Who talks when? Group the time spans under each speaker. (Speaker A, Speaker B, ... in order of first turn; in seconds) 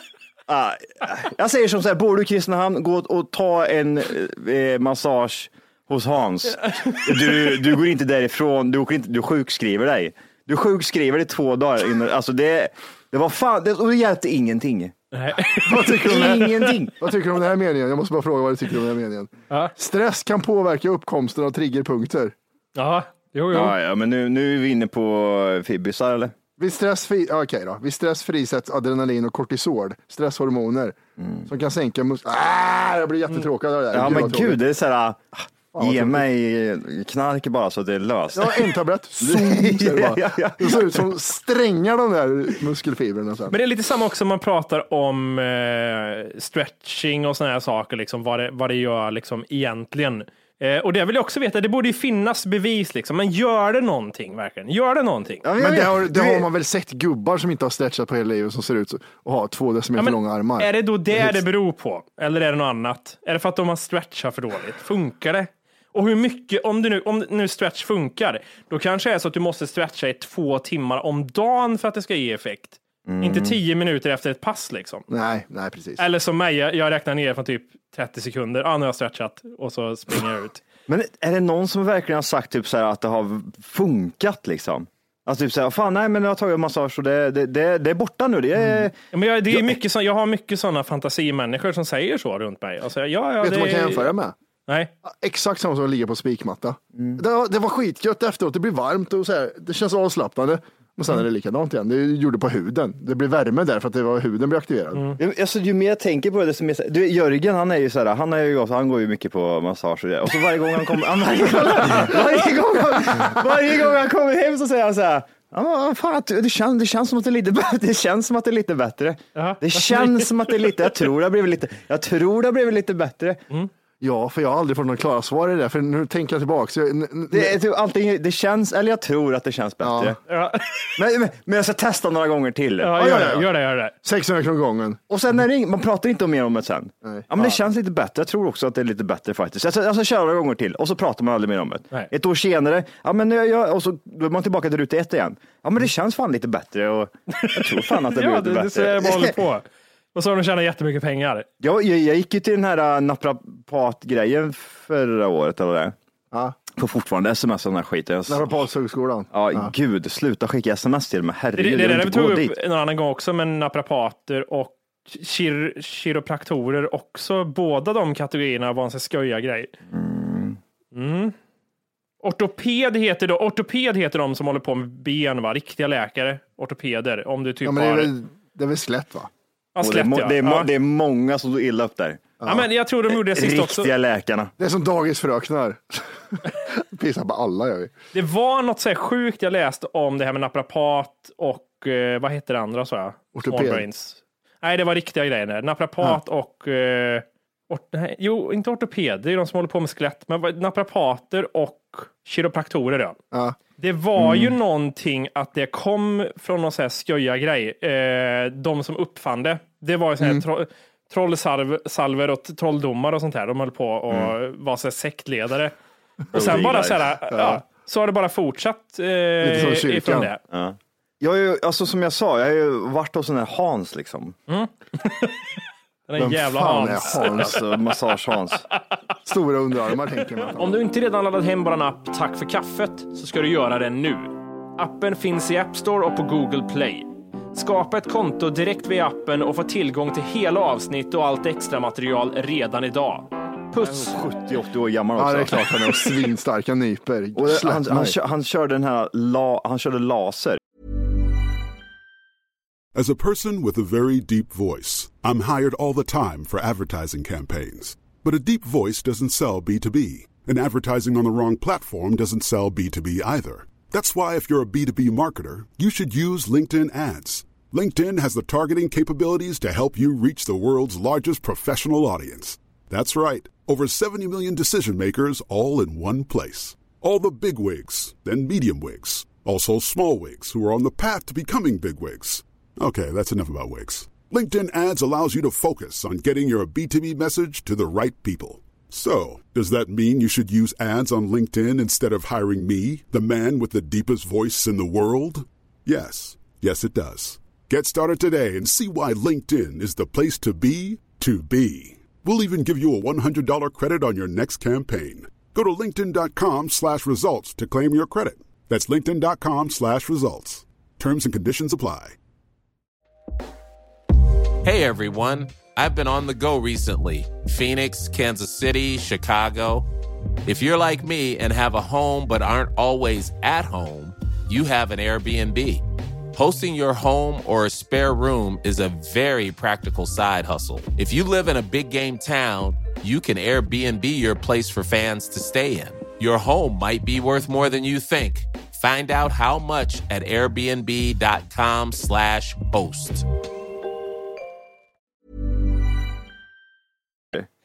Speaker A: 0.5-14.9, 16.0-16.9, 23.5-26.3, 31.2-31.5, 33.9-41.1, 55.4-56.5, 73.1-73.6, 80.9-89.0, 97.0-97.2, 105.2-123.4, 127.3-130.2, 131.0-133.4, 135.1-149.4, 151.6-155.9, 156.8-158.6, 159.3-162.6, 169.9-170.6, 179.8-182.4, 183.1-184.5, 216.3-217.1, 220.5-224.4, 227.1-228.7, 243.8-245.8, 247.4-250.6
Speaker B: 6.7-7.6, 15.1-16.3, 22.8-23.7, 43.5-55.5, 60.0-75.1, 76.0-80.6, 89.1-94.1, 104.9-105.2, 119.3-120.3, 130.3-130.9, 132.8-133.9, 147.3-151.5, 161.6-169.7, 170.9-171.3, 172.2-178.1, 179.8-180.7, 182.5-183.9, 188.1-203.2, 203.8-215.7, 216.3-220.4, 224.5-225.4, 226.1-227.6, 230.6-244.2
Speaker C: 15.7-22.4, 26.6-34.6, 35.7-36.2, 38.4-43.6, 55.6-61.4, 75.1-76.0, 88.6-88.9, 93.4-94.3, 95.0-105.1, 124.0-127.6, 129.8-130.2, 133.0-133.4, 134.0-135.0, 137.0-137.5, 158.3-159.7, 177.6-179.3, 182.4-182.7, 184.6-187.9, 193.3-193.8, 203.3-203.6, 204.2-204.5, 217.3-217.6, 219.4-220.3, 226.2-227.6, 229.3-230.8, 245.2-248.2
Speaker D: 252.9-312.2
Speaker E: 314.6-319.9, 320.4-325.8, 326.3-343.3